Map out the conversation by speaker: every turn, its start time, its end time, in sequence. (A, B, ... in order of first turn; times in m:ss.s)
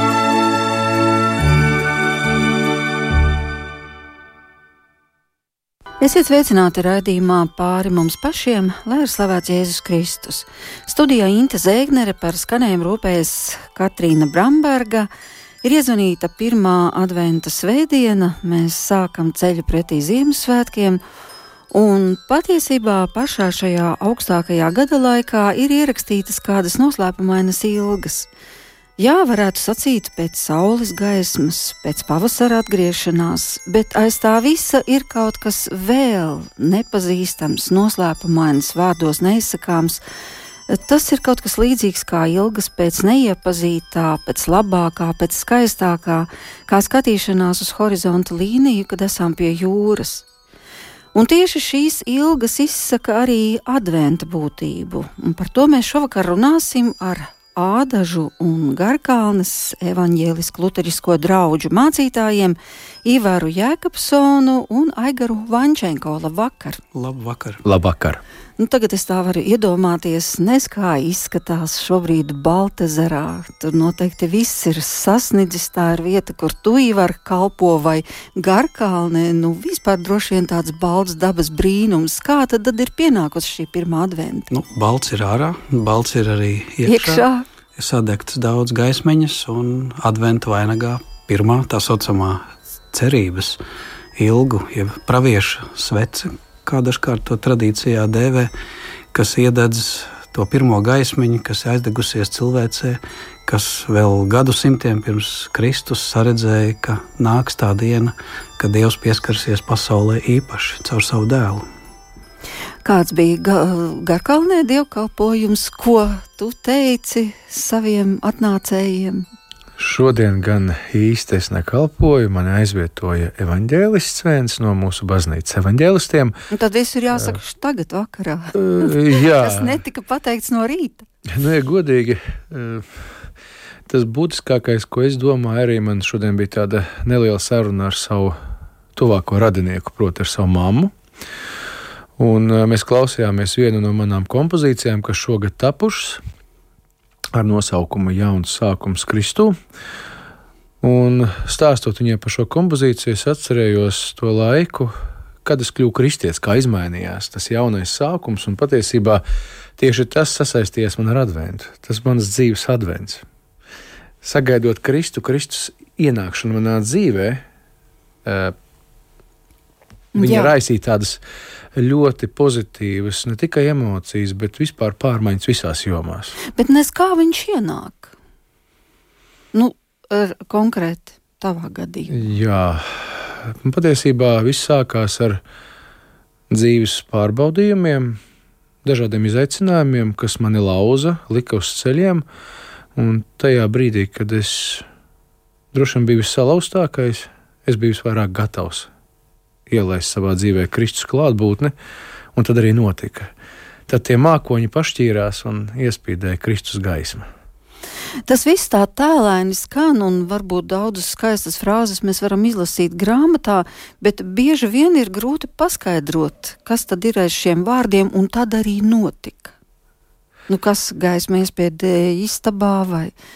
0:06.0-0:15.1 A
0:15.6-0:21.0 A
0:21.7-0:28.3 A
0:29.0-0:40.0 A
0:40.7-0:50.2 A
0:51.1-1:06.8 A
1:06.9-1:07.6 B
1:07.6-1:08.2 C
1:08.6-1:24.5 A
1:24.5-1:27.2 B
1:26.8-1:27.4 A
1:27.8-1:33.6 B
1:34.2-1:38.5 B
1:39.1-1:51.7 B
1:52.8-1:59.2 A
1:59.8-2:06.3 C
2:06.5-2:11.1 A
2:08.5-2:09.8 C
2:11.3-2:13.1 C
2:13.9-2:18.4 C
2:18.9-2:20.9 C
2:22.2-2:26.2 C
2:27.3-2:29.5 C
2:30.8-2:39.2 C
2:39.8-2:43.2 C
2:44.2-2:47.4 C
2:48.2-2:48.5 C
2:50.1-2:50.5 A
2:50.2-2:51.2 C
2:51.8-2:56.4 C
2:56.5-2:58.1 A
2:59.5-3:02.3 A
3:02.1-3:05.4 C
3:06.5-3:08.2 C
3:08.8-3:12.2 C
3:13.0-3:14.8 C
3:15.7-3:18.9 C
3:19.7-3:21.7 C
3:22.3-3:23.3 C
3:23.9-3:27.3 C
3:28.3-3:39.5 A
3:40.5-3:43.1 A